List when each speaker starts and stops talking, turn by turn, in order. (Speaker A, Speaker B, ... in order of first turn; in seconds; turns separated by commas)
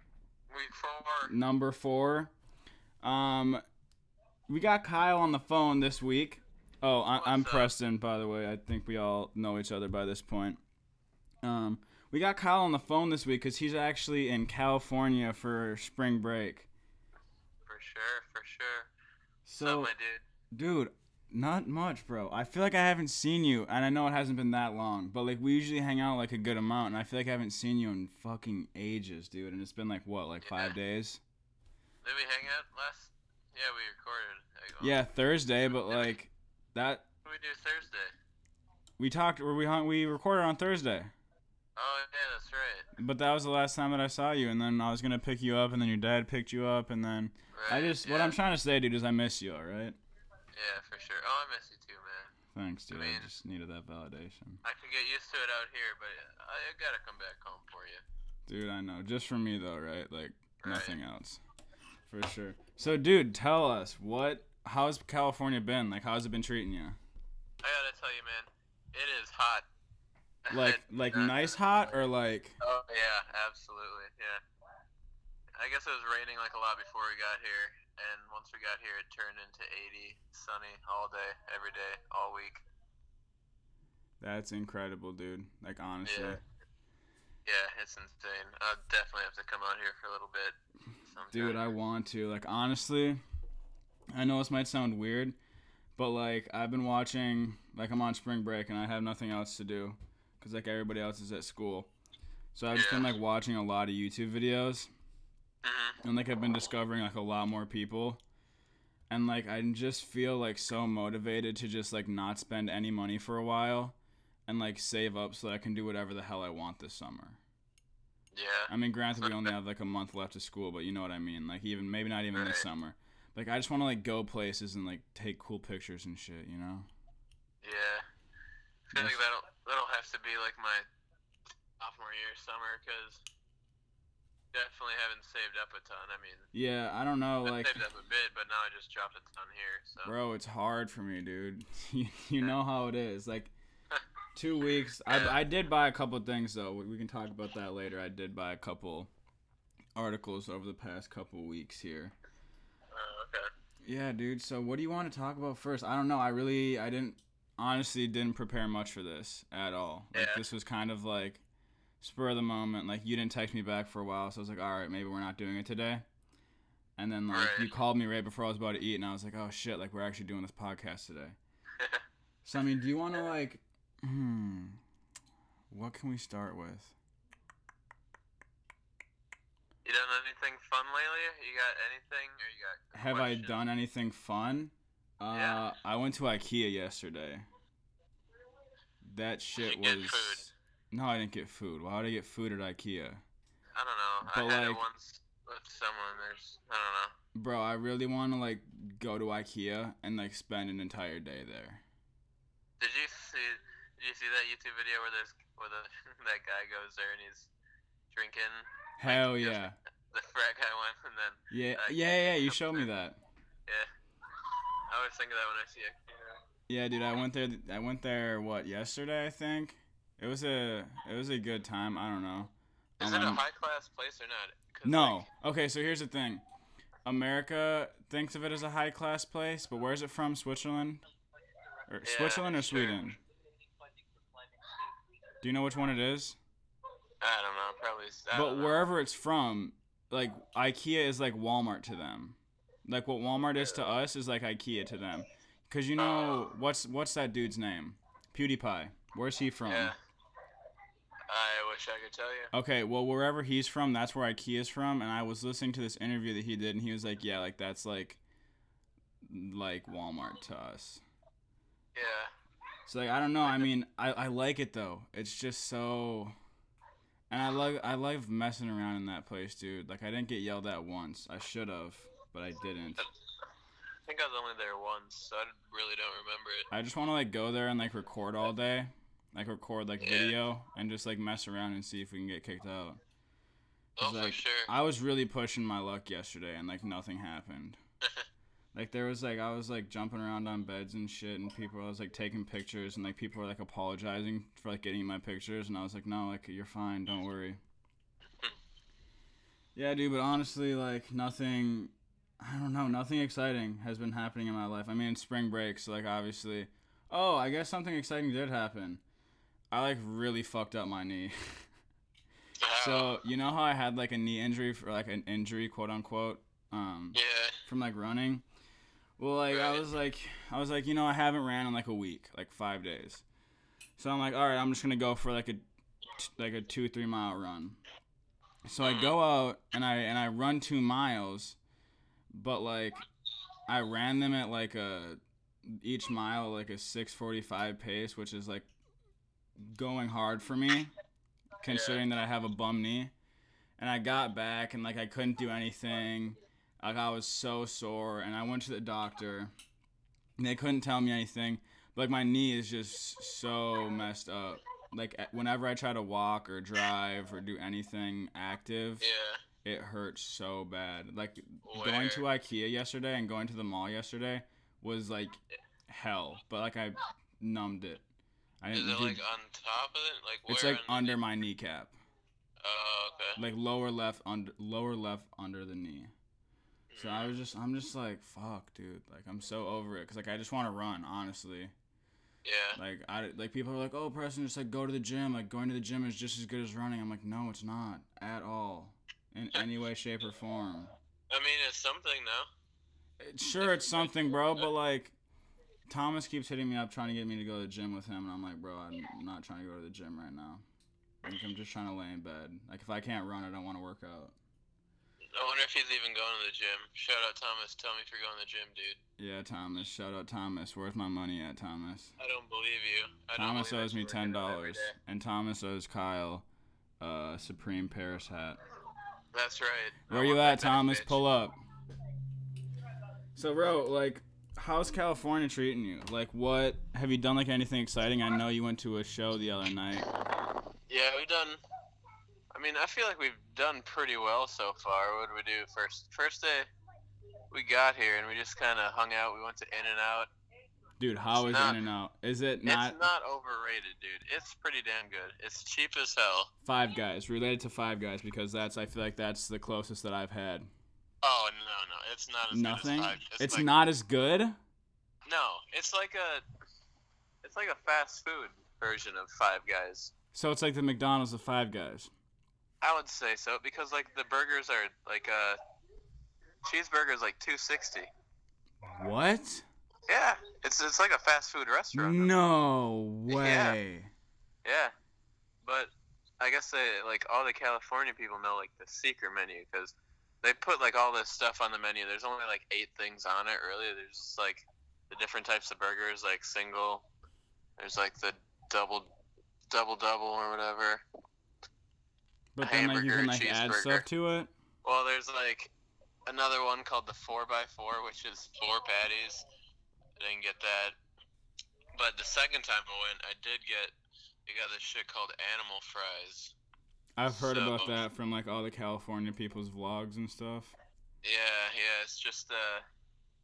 Speaker A: 0.5-1.3, Speaker B: 1.3-2.3, Speaker B: 3.0-3.6, Speaker B: 4.5-10.6, Speaker A: 7.2-7.7, Speaker B: 11.4-16.7, Speaker A: 17.7-18.9, Speaker B: 19.4-19.9, Speaker A: 19.6-20.2, Speaker B: 20.5-31.2, Speaker A: 30.4-30.8, Speaker A: 32.0-35.0, Speaker B: 34.8-37.0, Speaker A: 35.7-36.1, Speaker A: 37.2-38.1, Speaker B: 39.0-41.1, Speaker A: 41.8-42.9, Speaker B: 43.0-50.0, Speaker A: 47.5-48.4, Speaker A: 50.5-52.4, Speaker B: 52.5-54.6, Speaker A: 52.9-53.3, Speaker A: 54.6-58.0, Speaker B: 58.5-61.4, Speaker A: 60.6-61.0, Speaker B: 62.1-67.0, Speaker A: 67.6-69.7, Speaker A: 70.5-71.6, Speaker B: 70.5-72.6, Speaker A: 72.6-74.4, Speaker A: 75.6-82.6, Speaker B: 84.2-86.4, Speaker A: 86.0-86.4, Speaker A: 87.5-90.6, Speaker A: 91.1-91.6, Speaker B: 91.3-93.2, Speaker B: 94.1-95.4, Speaker B: 96.0-101.9, Speaker B: 102.5-104.9, Speaker A: 102.7-103.1, Speaker A: 105.6-106.0, Speaker B: 106.0-108.2, Speaker B: 109.1-114.0, Speaker B: 114.5-117.4, Speaker A: 118.3-119.5, Speaker B: 118.7-126.9, Speaker A: 122.3-122.7, Speaker A: 127.6-128.1, Speaker A: 128.9-130.9, Speaker B: 128.9-129.2, Speaker A: 131.8-133.2, Speaker A: 134.5-136.5, Speaker B: 136.5-137.8, Speaker A: 137.4-140.1, Speaker B: 140.1-143.5, Speaker B: 144.4-149.1, Speaker A: 145.1-145.4, Speaker B: 150.0-152.1, Speaker A: 152.9-153.5, Speaker B: 153.8-161.4, Speaker A: 160.1-160.4, Speaker B: 162.0-166.0, Speaker B: 167.0-171.4, Speaker A: 167.3-167.7, Speaker B: 172.4-174.8, Speaker B: 175.7-176.9, Speaker A: 179.8-183.6, Speaker B: 182.9-187.5, Speaker A: 185.3-185.7, Speaker B: 189.0-193.2, Speaker A: 189.6-190.5, Speaker A: 193.8-197.1, Speaker B: 194.3-194.8, Speaker B: 197.3-201.8, Speaker A: 202.8-207.5, Speaker A: 208.1-212.9, Speaker B: 209.0-209.8, Speaker B: 211.5-213.2, Speaker A: 214.9-216.4, Speaker B: 216.7-223.4, Speaker A: 223.0-225.3, Speaker B: 224.8-226.4, Speaker B: 227.1-231.0, Speaker B: 231.9-233.2, Speaker A: 232.0-233.1, Speaker B: 235.4-236.4, Speaker A: 237.2-238.8, Speaker B: 238.3-249.9, Speaker A: 243.6-243.8, Speaker A: 246.0-246.4, Speaker A: 249.7-250.0, Speaker A: 251.3-252.5, Speaker B: 252.5-258.2, Speaker B: 259.2-261.0, Speaker A: 261.9-262.3, Speaker B: 262.9-266.4, Speaker B: 267.3-273.0, Speaker A: 274.1-276.7, Speaker B: 276.7-283.0, Speaker A: 280.0-280.4, Speaker A: 284.0-284.7, Speaker B: 284.0-287.8, Speaker B: 288.7-297.6, Speaker B: 299.8-309.0, Speaker B: 309.7-311.6, Speaker A: 312.6-313.2, Speaker B: 312.8-318.4, Speaker A: 317.1-317.6, Speaker B: 319.2-323.2, Speaker A: 319.5-319.9, Speaker B: 324.0-325.6, Speaker B: 326.2-327.8, Speaker B: 328.7-331.6, Speaker A: 328.8-329.1, Speaker B: 332.3-333.1, Speaker B: 333.7-338.7, Speaker B: 339.6-340.9, Speaker B: 341.6-343.1, Speaker A: 341.7-342.1, Speaker B: 343.8-349.5, Speaker B: 350.4-359.1, Speaker A: 359.0-359.4, Speaker B: 359.6-368.0, Speaker A: 361.6-362.2, Speaker B: 368.6-369.2, Speaker A: 368.7-371.2, Speaker B: 370.5-371.9, Speaker A: 372.6-373.4, Speaker B: 373.4-376.1, Speaker A: 376.9-377.4, Speaker B: 377.0-381.7, Speaker A: 382.4-382.8, Speaker B: 382.8-390.9, Speaker A: 391.3-392.5, Speaker B: 393.2-395.1, Speaker A: 393.6-394.7, Speaker B: 395.9-400.6, Speaker B: 401.2-404.4, Speaker A: 405.3-409.0, Speaker B: 409.2-412.1, Speaker A: 412.2-414.9, Speaker B: 413.4-416.5, Speaker B: 417.0-418.6, Speaker A: 419.3-421.2, Speaker B: 420.1-421.6, Speaker B: 423.4-430.1, Speaker A: 430.9-431.6, Speaker A: 432.5-436.7, Speaker A: 437.5-440.3, Speaker B: 441.0-443.0, Speaker A: 441.4-441.8, Speaker A: 442.7-446.5, Speaker B: 446.6-450.7, Speaker A: 451.2-453.7, Speaker B: 452.5-454.6, Speaker A: 455.3-456.4, Speaker A: 457.4-460.1, Speaker B: 460.3-462.1, Speaker A: 462.8-465.6, Speaker A: 466.6-468.1, Speaker B: 468.8-469.7, Speaker A: 470.1-472.3, Speaker B: 471.9-474.1, Speaker A: 473.3-473.8, Speaker A: 474.6-474.9, Speaker A: 475.6-487.1, Speaker A: 487.8-489.1, Speaker A: 489.7-491.0, Speaker B: 492.6-494.5, Speaker A: 492.6-494.1, Speaker A: 494.8-495.7, Speaker A: 496.3-499.4, Speaker A: 500.2-501.0, Speaker A: 501.9-503.9, Speaker A: 504.5-506.6, Speaker B: 507.2-510.8, Speaker A: 507.3-508.0, Speaker A: 511.2-512.9